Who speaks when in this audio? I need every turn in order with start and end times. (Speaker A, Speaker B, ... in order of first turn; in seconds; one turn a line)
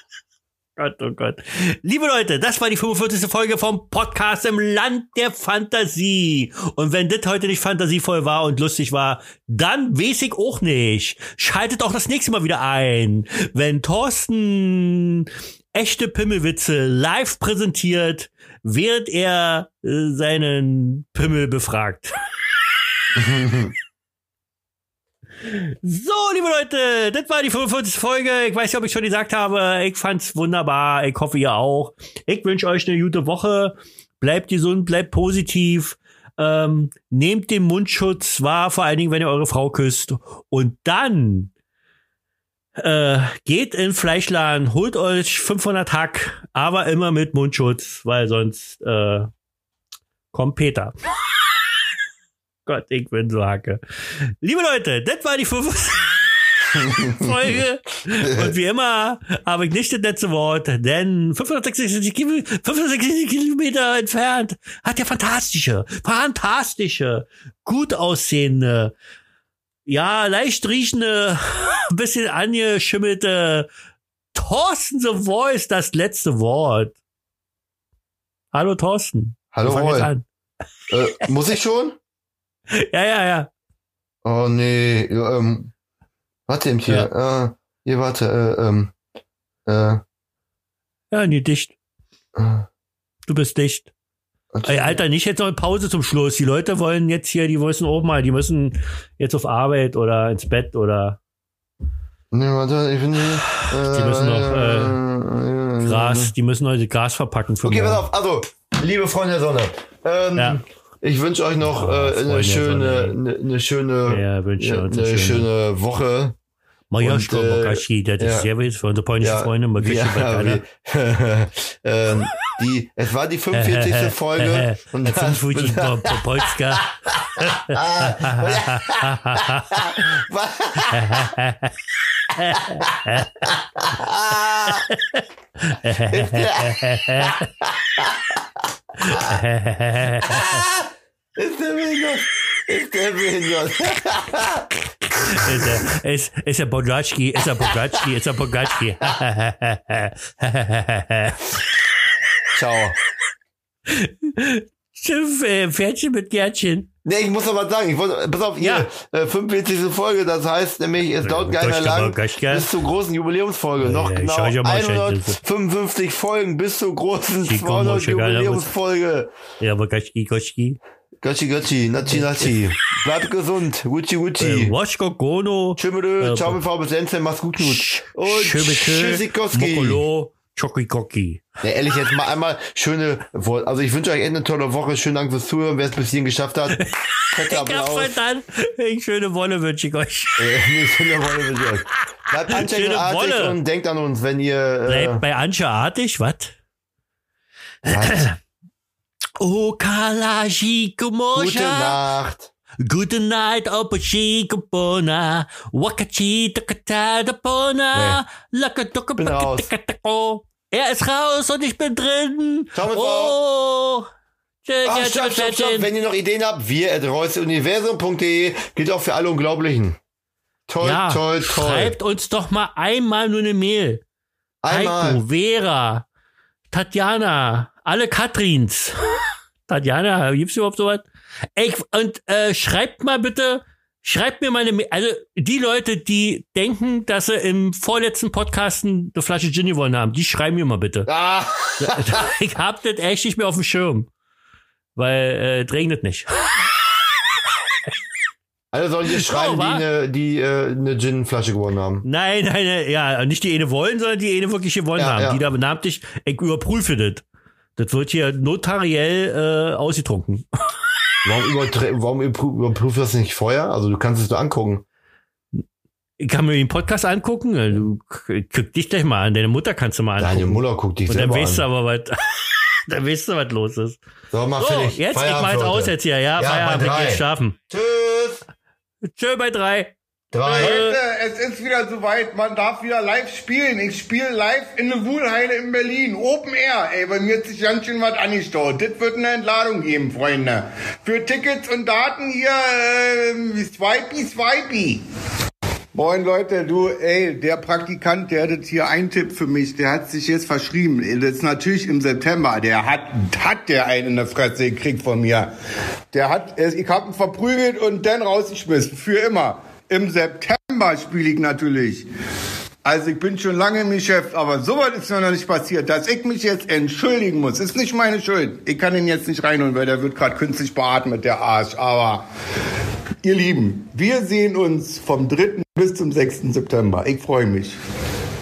Speaker A: 0.8-22.1
Speaker B: 23.1-23.7
Speaker A: 25.4-41.5
Speaker A: 42.8-49.3
Speaker A: 50.3-50.9
Speaker A: 52.6-53.8
Speaker A: 54.4-56.3
Speaker B: 56.8-57.3
Speaker A: 56.8-68.9
Speaker B: 58.2-58.5
Speaker A: 69.8-73.7
Speaker A: 74.3-77.0
Speaker A: 78.5-80.2
Speaker B: 79.5-80.1
Speaker B: 80.9-82.0
Speaker A: 82.7-83.5
Speaker B: 84.2-85.7
Speaker B: 86.5-88.9
Speaker B: 89.7-90.0
Speaker A: 91.1-91.8
Speaker B: 92.3-92.7
Speaker A: 93.3-93.9
Speaker B: 94.5-95.0
Speaker A: 94.6-101.2
Speaker B: 102.3-106.3
Speaker A: 103.5-105.0
Speaker A: 105.8-108.0
Speaker B: 107.6-116.4
Speaker A: 111.6-113.2
Speaker A: 114.1-115.5
Speaker A: 116.9-120.6
Speaker B: 117.0-118.5
Speaker B: 119.2-126.5
Speaker A: 123.5-129.8
Speaker B: 127.2-131.3
Speaker A: 130.9-131.7
Speaker A: 132.3-133.5
Speaker B: 132.6-134.8
Speaker A: 134.7-137.5
Speaker B: 136.1-138.4
Speaker A: 139.0-140.6
Speaker B: 139.1-139.4
Speaker B: 140.2-144.7
Speaker A: 145.2-151.4
Speaker B: 152.5-152.9
Speaker A: 153.9-156.9
Speaker B: 157.0-169.3
Speaker A: 158.6-158.9
Speaker A: 161.2-162.7
Speaker A: 163.8-165.4
Speaker A: 167.4-168.7
Speaker A: 169.6-170.8
Speaker B: 171.2-174.7
Speaker A: 172.2-172.5
Speaker A: 174.4-176.6
Speaker B: 175.8-180.0
Speaker A: 177.6-181.4
Speaker B: 181.6-188.1
Speaker A: 186.8-190.6
Speaker B: 190.4-195.2
Speaker A: 192.1-193.6
Speaker A: 194.9-196.6
Speaker A: 197.8-198.4
Speaker B: 197.8-198.2
Speaker A: 199.4-202.0
Speaker B: 201.3-202.5
Speaker A: 202.8-214.1
Speaker B: 207.9-208.2
Speaker B: 209.2-209.7
Speaker B: 212.7-213.3
Speaker A: 214.6-215.9
Speaker B: 214.8-220.0
Speaker B: 220.7-221.9
Speaker A: 220.8-224.0
Speaker B: 224.6-225.2
Speaker A: 224.7-226.1
Speaker A: 226.7-241.1
Speaker B: 241.1-242.2
Speaker A: 241.8-244.1
Speaker A: 244.9-246.5
Speaker B: 248.7-252.0
Speaker A: 249.1-249.8
Speaker A: 252.0-257.2
Speaker B: 254.9-255.4
Speaker A: 257.8-260.4
Speaker B: 261.2-264.8
Speaker A: 266.2-274.0
Speaker B: 270.2-271.6
Speaker B: 274.3-278.4
Speaker A: 274.6-277.6
Speaker A: 279.1-279.9
Speaker B: 280.3-280.9
Speaker C: 280.4-295.0
Speaker A: 280.6-281.0
Speaker C: 295.9-305.5
Speaker C: 306.1-312.1
Speaker C: 312.8-322.2
Speaker C: 323.2-327.8